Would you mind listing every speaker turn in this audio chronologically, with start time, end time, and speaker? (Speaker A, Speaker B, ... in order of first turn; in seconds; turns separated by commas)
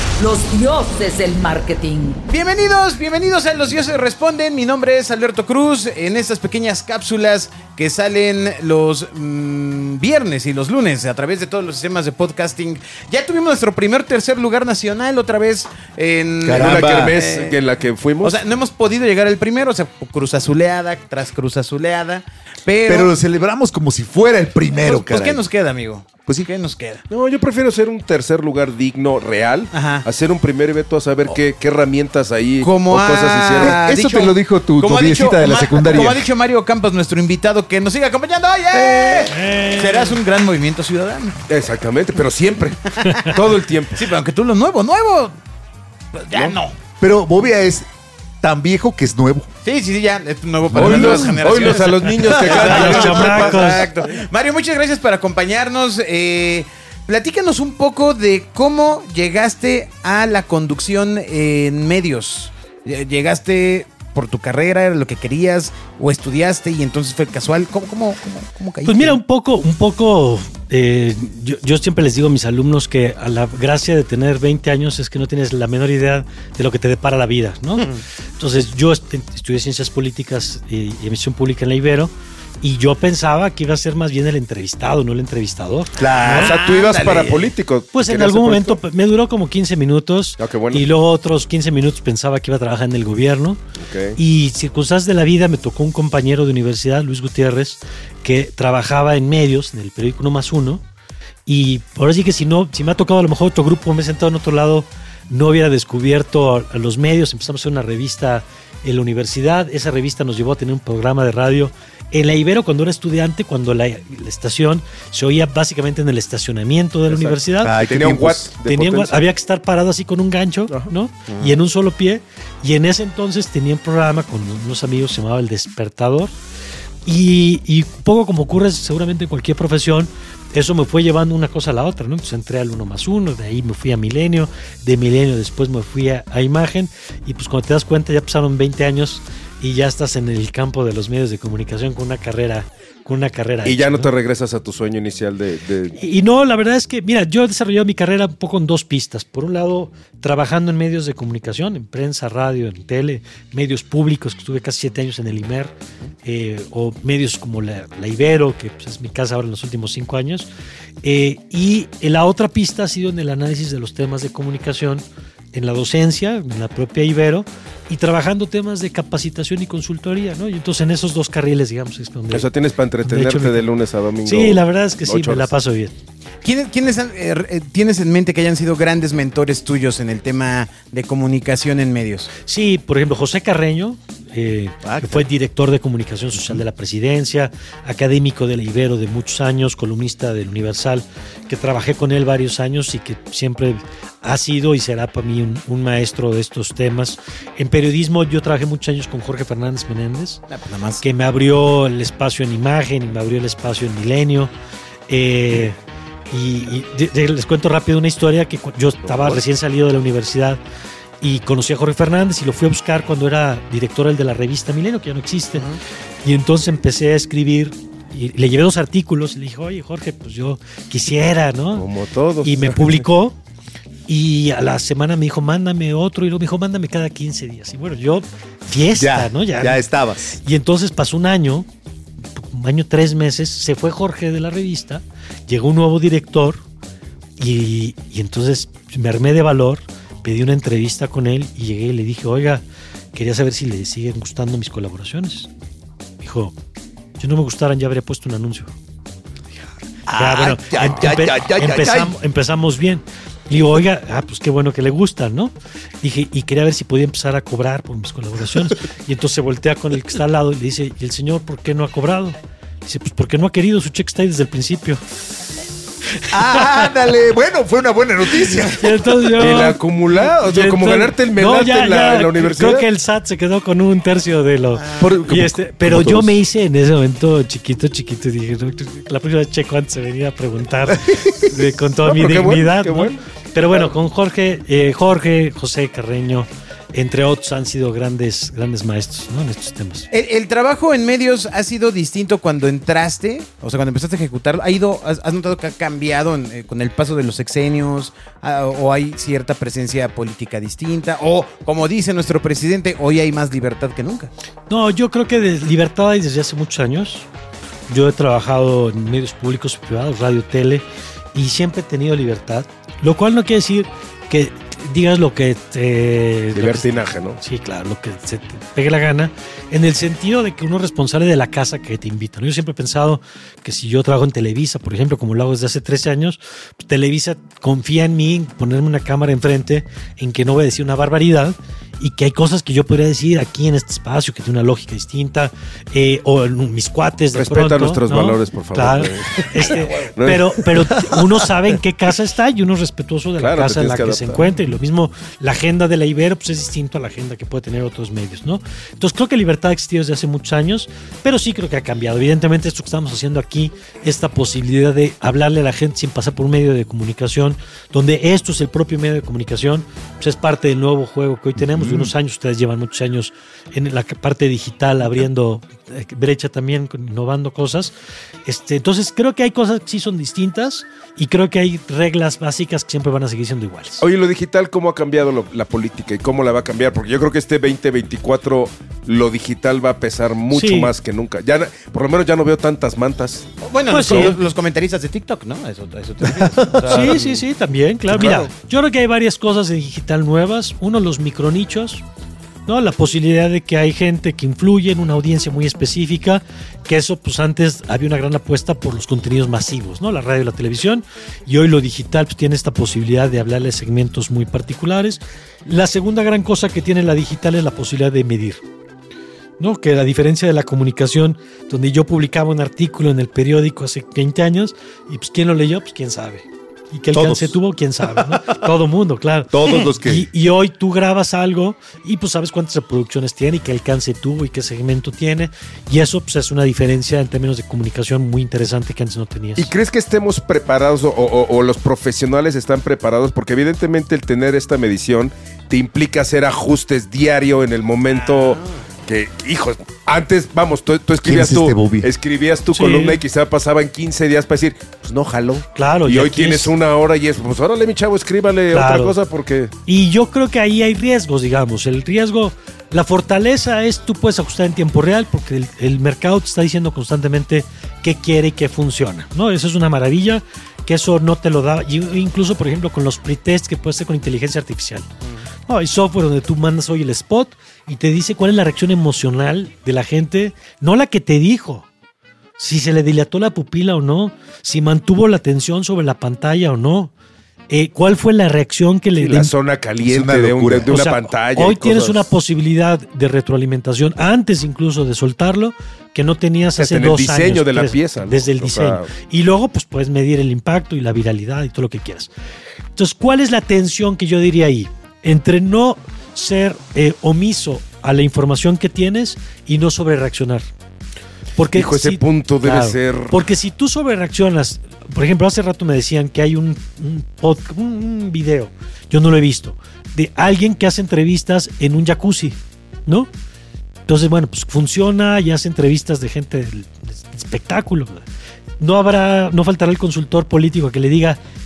Speaker A: 0.2-2.2, Speaker B: 2.3-17.6, Speaker C: 16.4-17.1, Speaker D: 16.6-18.4, Speaker B: 18.2-23.1, Speaker C: 22.8-25.4, Speaker B: 24.8-27.0, Speaker D: 27.1-33.8, Speaker B: 29.7-30.1, Speaker B: 32.6-41.4, Speaker C: 33.6-36.2, Speaker C: 38.7-39.2, Speaker E: 39.3-40.2, Speaker D: 41.5-44.0, Speaker E: 43.0-43.3, Speaker B: 44.0-45.4, Speaker B: 46.1-46.8, Speaker C: 47.0-47.9, Speaker C: 48.4-49.5, Speaker B: 49.6-69.2, Speaker D: 50.7-53.7, Speaker C: 50.8-51.0, Speaker E: 52.6-53.8, Speaker E: 68.8-86.5, Speaker C: 86.0-86.3, Speaker B: 86.0-87.5, Speaker D: 86.4-88.8, Speaker E: 87.9-93.6, Speaker D: 90.4-90.8, Speaker D: 93.8-94.2, Speaker E: 94.2-100.8, Speaker E: 101.5-117.7, Speaker D: 117.1-119.2, Speaker C: 117.6-118.4, Speaker E: 118.6-126.3, Speaker E: 127.0-144.1, Speaker D: 143.6-145.9, Speaker E: 146.0-155.7, Speaker E: 156.2-160.5, Speaker E: 161.0-172.5, Speaker D: 172.3-175.5, Speaker E: 173.0-173.7, Speaker E: 174.2-175.9, Speaker B: 176.4-182.3, Speaker E: 182.4-200.4, Speaker C: 184.8-185.3, Speaker B: 200.5-201.0, Speaker E: 201.0-204.5, Speaker E: 205.1-205.8, Speaker E: 206.3-210.6, Speaker E: 211.2-215.7, Speaker E: 216.2-221.9, Speaker D: 221.7-223.0, Speaker E: 222.4-223.3, Speaker E: 224.1-231.7, Speaker C: 228.9-230.4, Speaker E: 232.4-236.6, Speaker E: 237.4-245.5, Speaker E: 246.2-246.5, Speaker E: 247.2-248.7, Speaker C: 250.1-252.1, Speaker E: 250.1-265.0, Speaker E: 266.2-266.9, Speaker C: 266.3-269.2, Speaker E: 268.5-290.1, Speaker D: 269.4-272.9, Speaker C: 274.9-276.3, Speaker C: 281.1-281.4, Speaker D: 282.0-283.2, Speaker B: 290.1-304.3, Speaker E: 304.7-307.3, Speaker E: 307.9-367.9, Speaker D: 316.5-317.4, Speaker D: 337.3-340.5, Speaker B: 339.6-340.0, Speaker D: 343.4-344.4, Speaker C: 361.6-362.1, Speaker E: 368.4-374.0, Speaker D: 374.0-384.3, Speaker E: 380.5-380.9, Speaker B: 383.6-387.4, Speaker E: 383.9-384.4, Speaker E: 386.9-392.0, Speaker C: 388.1-388.5, Speaker E: 392.6-408.6, Speaker E: 409.6-429.7, Speaker C: 417.1-417.6, Speaker C: 418.1-418.5, Speaker C: 419.5-420.2, Speaker D: 429.6-449.7, Speaker B: 438.1-438.8, Speaker C: 441.2-442.1, Speaker E: 442.7-443.2, Speaker E: 445.7-446.7, Speaker E: 448.7-449.1, Speaker E: 449.9-465.1, Speaker E: 465.7-471.9, Speaker E: 472.6-477.1, Speaker E: 477.7-479.5, Speaker D: 479.2-482.3, Speaker C: 480.0-481.0, Speaker E: 480.9-492.3, Speaker D: 486.8-489.1, Speaker E: 492.9-500.6, Speaker E: 501.6-513.3, Speaker D: 501.7-503.4, Speaker E: 514.1-518.2, Speaker E: 518.8-521.4